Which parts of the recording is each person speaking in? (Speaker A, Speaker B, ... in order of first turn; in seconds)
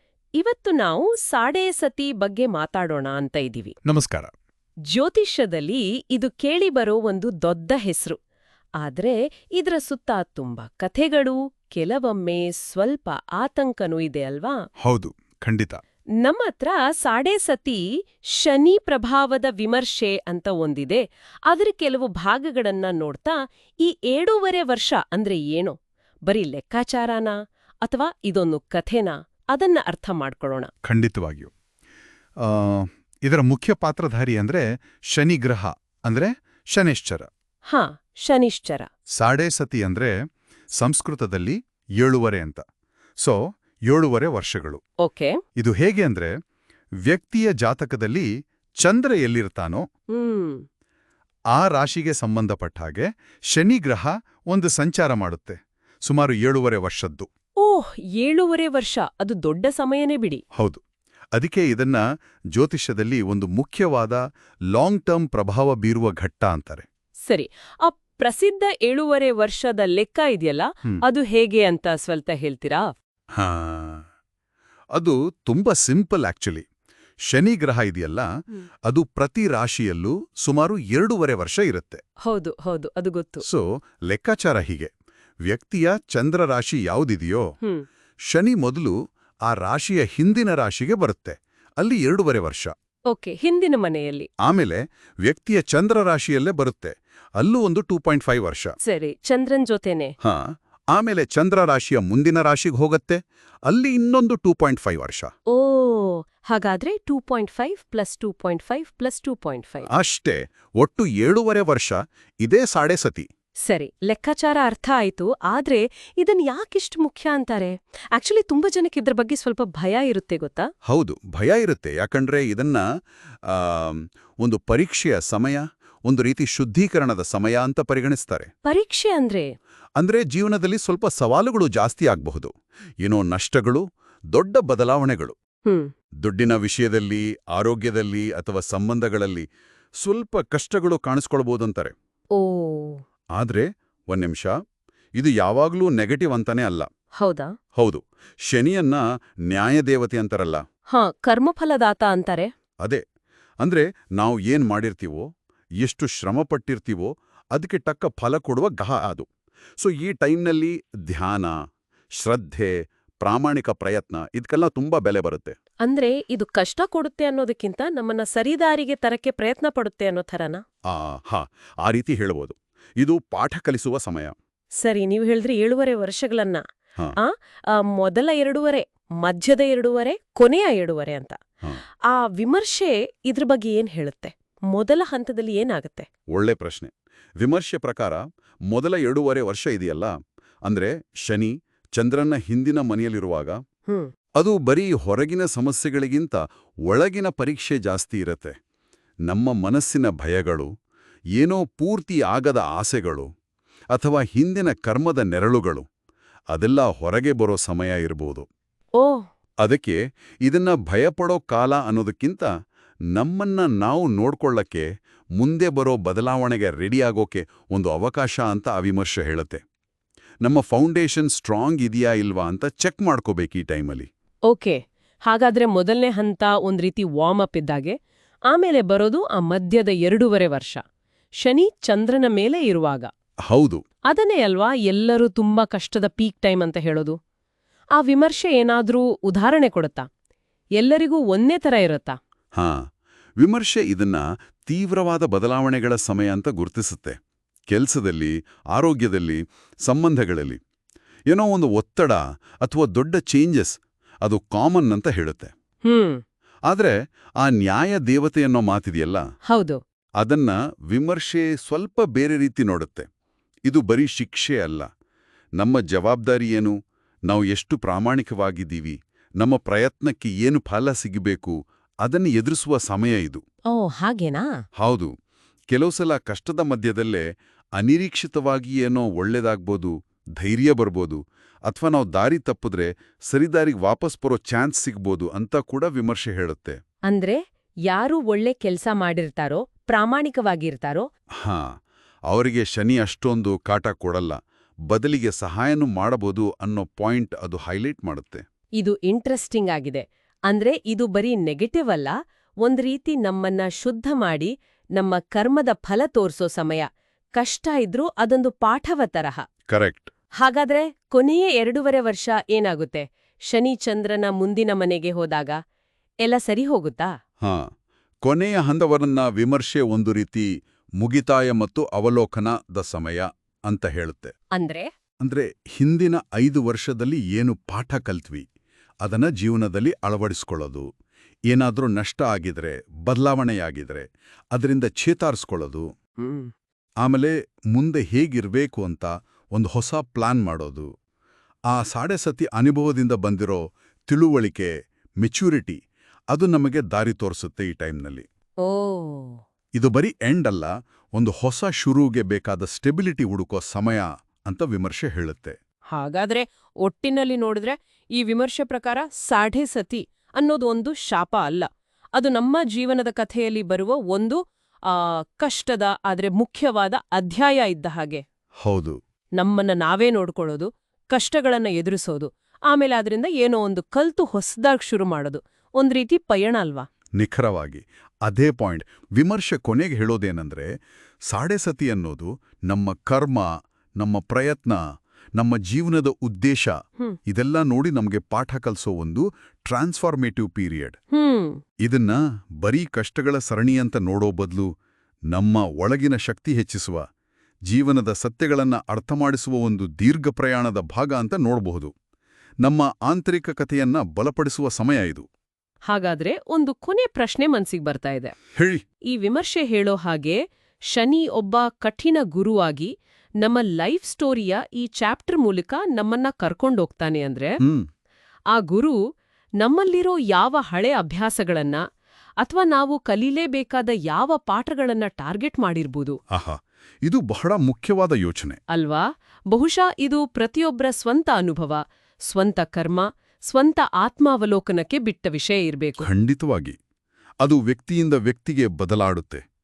Speaker A: 0.4-3.7, 4.9-8.2, 8.8-14.6, 16.2-30.7, 37.7-38.9, 45.0-45.4, 50.1-50.6, 57.6-60.4, 67.3-72.9, 82.2-83.4, 93.1-94.3, 98.8-100.1, 105.5-109.9, 113.7-120.7, 128.7-129.5, 135.7-135.9, 142.3-143.0, 147.2-147.5, 150.9-152.5, 165.8-170.6, 174.8-176.6, 177.2-181.4, 182.1-186.1, 209.0-209.2, 224.5-227.9, 228.5-230.8, 231.4-233.1, 234.1-237.2, 237.9-240.1, 240.8-242.2, 255.8-256.2, 259.5-259.8, 273.7-274.5, 287.1-291.0, 298.8-309.4, 310.4-315.6, 316.2-317.1, 324.5-324.9, 336.2-336.5, 348.6-349.4, 355.9-368.2, 369.4-376.9, 391.1-391.6, 405.9-408.3, 409.1-410.4, 410.9-412.9, 413.4-417.6, 418.5-419.0, 419.6-421.8, 422.4-426.2, 428.7-436.1
Speaker B: 3.9-4.3, 14.8-15.8, 30.8-31.5, 32.4-37.3, 39.2-40.1, 40.8-42.6, 43.2-44.8, 45.6-46.3, 47.0-48.3, 48.8-49.8, 51.5-57.3, 60.5-60.8, 61.3-62.0, 62.5-64.2, 64.7-66.8, 73.3-74.0, 74.9-76.6, 77.3-78.2, 78.9-82.0, 83.4-84.9, 85.4-87.4, 88.3-88.9, 89.5-92.7, 94.4-98.7, 100.2-105.3, 109.9-113.3, 120.9-122.8, 123.5-128.5, 130.0-135.3, 136.2-139.4, 140.0-141.9, 143.3-144.5, 145.2-146.9, 147.7-150.6, 153.6-155.2, 155.8-159.3, 159.8-161.5, 162.2-165.5, 170.9-174.3, 186.3-188.2, 188.7-190.1, 190.6-193.6, 194.4-198.5, 199.3-200.7, 201.4-203.3, 203.9-205.8, 206.5-208.5, 209.6-212.5, 213.1-219.6, 220.4-224.1, 233.5-233.8, 242.5-242.8, 243.4-247.2, 247.7-250.6, 251.3-255.5, 256.7-259.2, 260.2-263.1, 263.7-264.9, 265.6-266.7, 267.3-273.4, 274.8-275.1, 275.7-277.2, 277.8-286.8, 291.4-291.7, 292.3-294.4, 294.9-298.4, 309.7-310.1, 317.4-317.7, 318.2-320.5, 321.0-324.3, 325.2-328.4, 329.0-330.9, 331.5-335.9, 337.0-340.9, 341.7-345.8, 346.3-348.2, 349.8-355.6, 368.6-369.0, 377.2-380.7, 381.3-384.8, 385.4-386.7, 387.3-391.0, 391.8-394.7, 395.3-397.0, 397.7-401.9, 402.6-405.2, 408.6-408.8, 426.3-428.6, 436.0-436.8, 437.4-439.4